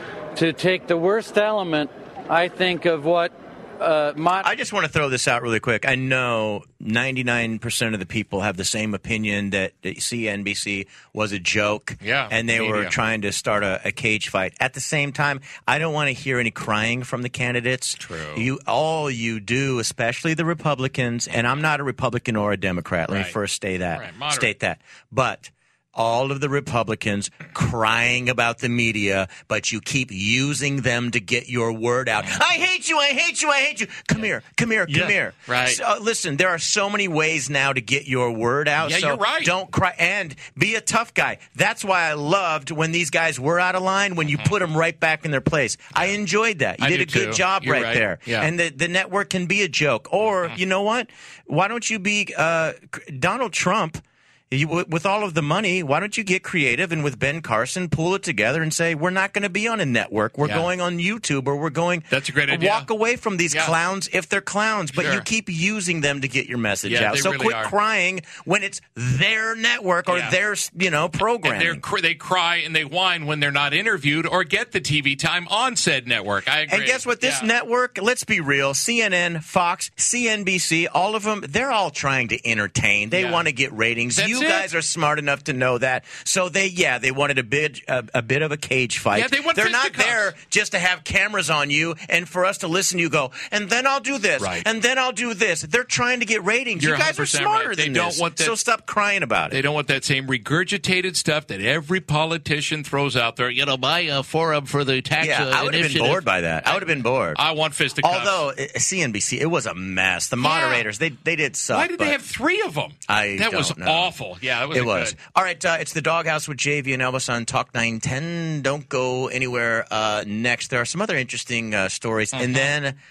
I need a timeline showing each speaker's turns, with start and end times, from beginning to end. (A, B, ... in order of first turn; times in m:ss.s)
0:00.4-0:04.5 A
0:04.4-1:11.8 B
0:12.0-0:12.9 C
0:18.0-0:18.5 C
0:23.1-0:23.4 C
0:24.0-0:24.5 C
0:34.9-0:35.8 C
0:38.8-0:39.6 C
0:46.8-0:48.5 C
1:02.1-1:02.9 C
1:03.5-1:03.8 C
1:04.9-1:05.2 C
1:06.9-1:07.7 C
1:10.1-1:10.4 C
1:11.4-1:17.5 C
1:16.7-1:39.6 B
1:23.1-1:23.4 C
1:24.1-1:24.7 C
1:29.1-1:30.3 C
1:34.4-1:34.7 C
1:36.8-1:38.6 C
1:39.5-1:48.4 C
1:45.2-1:47.4 B
1:48.0-1:52.2 B
1:50.4-1:50.8 C
1:51.7-1:55.2 C
1:53.1-1:54.2 B
1:54.7-2:03.0 B
2:02.4-2:02.7 C